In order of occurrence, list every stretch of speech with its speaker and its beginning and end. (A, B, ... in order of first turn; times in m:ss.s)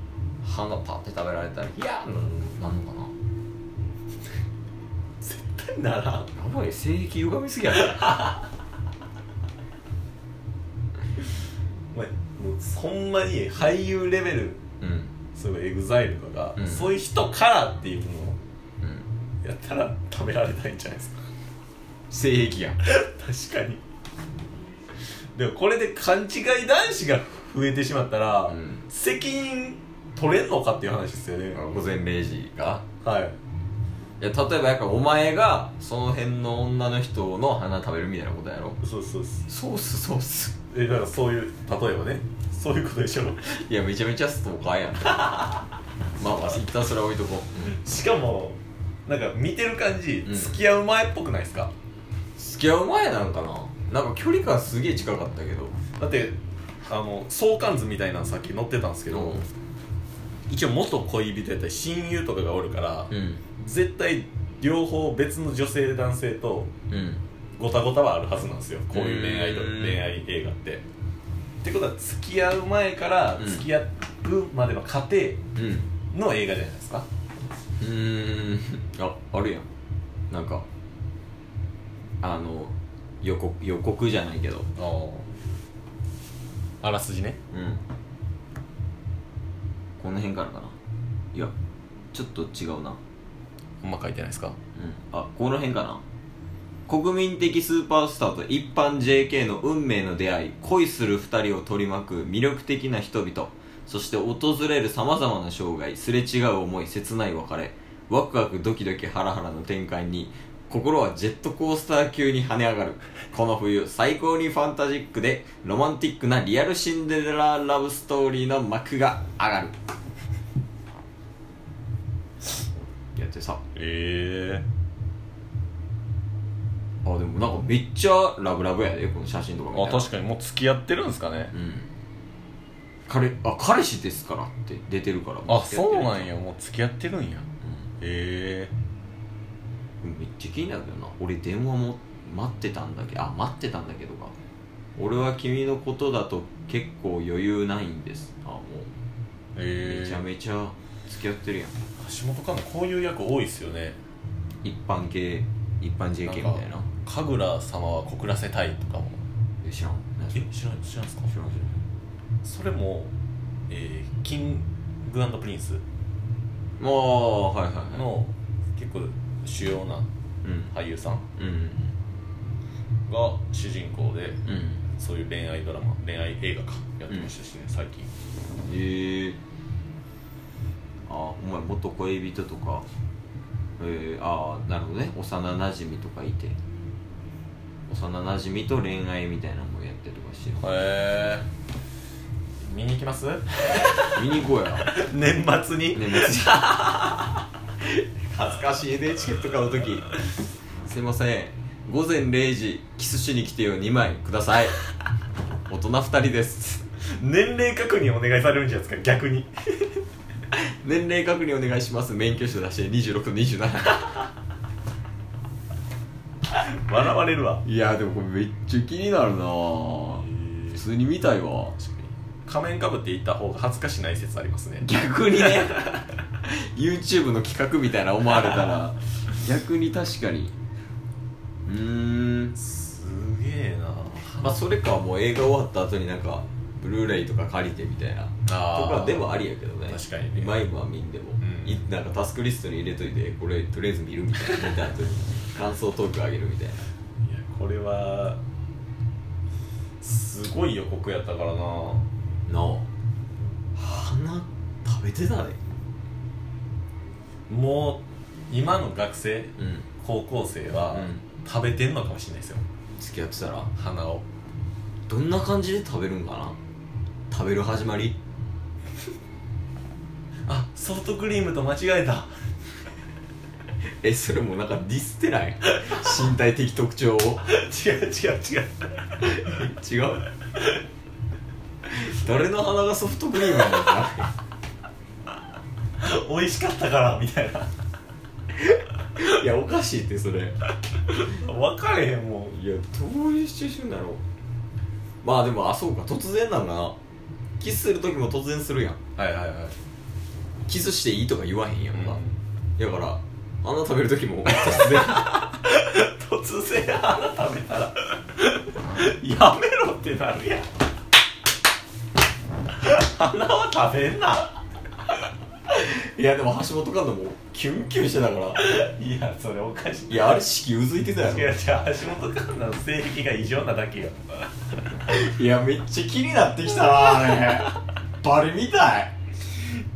0:00.4-0:03.1 A
0:05.2-0:06.3 B
0:06.3-0:08.2 A
0:11.9-0:14.6 B
0:14.8-0:15.1 A
0:15.3-0:18.4 B
0:16.6-0:16.9 A
0:19.4-0:21.2 B
0:22.1-0:22.8 A
0:22.8-0:23.8 B
0:25.3-0:31.6 B
0:28.5-0:28.8 A
0:31.5-0:32.8 A
0:33.0-0:33.4 B
0:34.2-0:38.8 A
0:38.8-0:39.4 B
0:39.5-0:40.6 A
0:40.7-0:43.5 B
0:43.5-0:45.5 A
0:46.2-0:47.8 A
0:47.6-0:51.7 B
0:50.2-0:50.6 A
0:52.4-0:55.8 A
0:56.0-0:59.5 B
0:59.1-0:59.4 A
1:00.5-1:06.7 B
1:03.1-1:03.4 A
1:06.9-1:07.2 A
1:07.6-1:10.8 B
1:08.9-1:10.0 A
1:11.6-1:15.4 B
1:13.4-1:13.6 A
1:15.6-1:15.9 A
1:16.1-1:17.1 B
1:17.8-1:19.6 A
1:20.3-1:20.6 A
1:22.2-1:24.7 A
1:24.8-1:25.3 B
1:26.8-1:27.4 B
1:27.5-1:27.8 A
1:30.0-1:30.8 A
1:32.1-1:33.0 A
1:33.8-1:34.6 B
1:34.8-1:36.0 A
1:36.9-1:59.8 A
2:03.1-2:03.6 A
2:03.8-2:04.6 B
2:07.0-2:10.1 A
2:09.7-2:11.5 B
2:11.5-2:11.9 A
2:13.1-2:16.3 A
2:15.5-2:17.5 B
2:18.0-2:18.7 B
2:20.0-2:24.3 A
2:25.0-2:28.9 A
2:29.5-2:30.2 B
2:29.7-2:31.8 A
2:32.0-2:34.0 B
2:34.6-2:36.9 A
2:36.2-2:39.2 B
2:39.6-2:40.5 A
2:40.3-2:41.3 B
2:41.3-2:41.8 A
2:42.4-2:43.1 B
2:43.7-2:45.8 B
2:46.8-2:48.1 A
2:47.9-2:50.1 B
2:50.4-2:50.7 A
2:50.7-2:51.2 B
2:51.4-2:51.9 A
2:53.1-2:54.4 B
2:54.4-2:54.8 A
2:55.0-2:58.1 B
2:58.6-2:59.4 A
3:01.1-3:02.9 A
3:03.8-3:06.6 A
3:07.9-3:10.7 A
3:10.6-3:11.4 B
3:12.6-3:14.2 B
3:14.1-3:14.9 A
3:14.8-3:17.1 B
3:15.9-3:17.0 A
3:17.9-3:20.1 A
3:20.8-3:24.8 A
3:25.7-3:26.8 A
3:27.2-3:30.0 B
3:30.5-3:34.2 A
3:36.8-3:37.6 B
3:37.6-3:41.8 A
3:41.8-3:45.9 B
3:44.8-3:50.5 A
3:51.6-3:52.6 A
3:52.6-3:54.6 B
3:54.4-4:06.8 A
3:58.5-4:00.6 B
4:01.4-4:01.8 B
4:07.2-4:08.4 B
4:10.0-4:12.1 B
4:12.5-4:12.9 A
4:13.8-4:15.6 A
4:17.5-4:22.6 B
4:19.6-4:19.8 A
4:20.9-4:21.2 A
4:23.0-4:23.7 A
4:23.8-4:24.2 B
4:25.1-4:26.6 A
4:27.3-4:28.2 A
4:30.5-4:32.3 B
4:34.0-4:37.4 A
4:37.5-4:38.9 B
4:39.2-4:40.2 A
4:41.9-4:44.3 A
4:46.0-4:47.7 B
4:48.7-4:50.6 A
4:51.3-4:52.5 B
4:52.5-4:54.2 A
4:55.2-4:57.0 A
4:57.6-4:59.0 A
4:59.2-4:59.8 B
5:00.7-5:02.2 A
5:01.9-5:02.4 B
5:02.8-5:05.5 A
5:04.8-5:10.7 B
5:12.8-5:14.6 B
5:15.7-5:18.6 A
5:18.6-5:20.4 B
5:20.1-5:21.5 A
5:21.2-5:24.2 B
5:25.1-5:29.2 A
5:26.9-5:27.7 B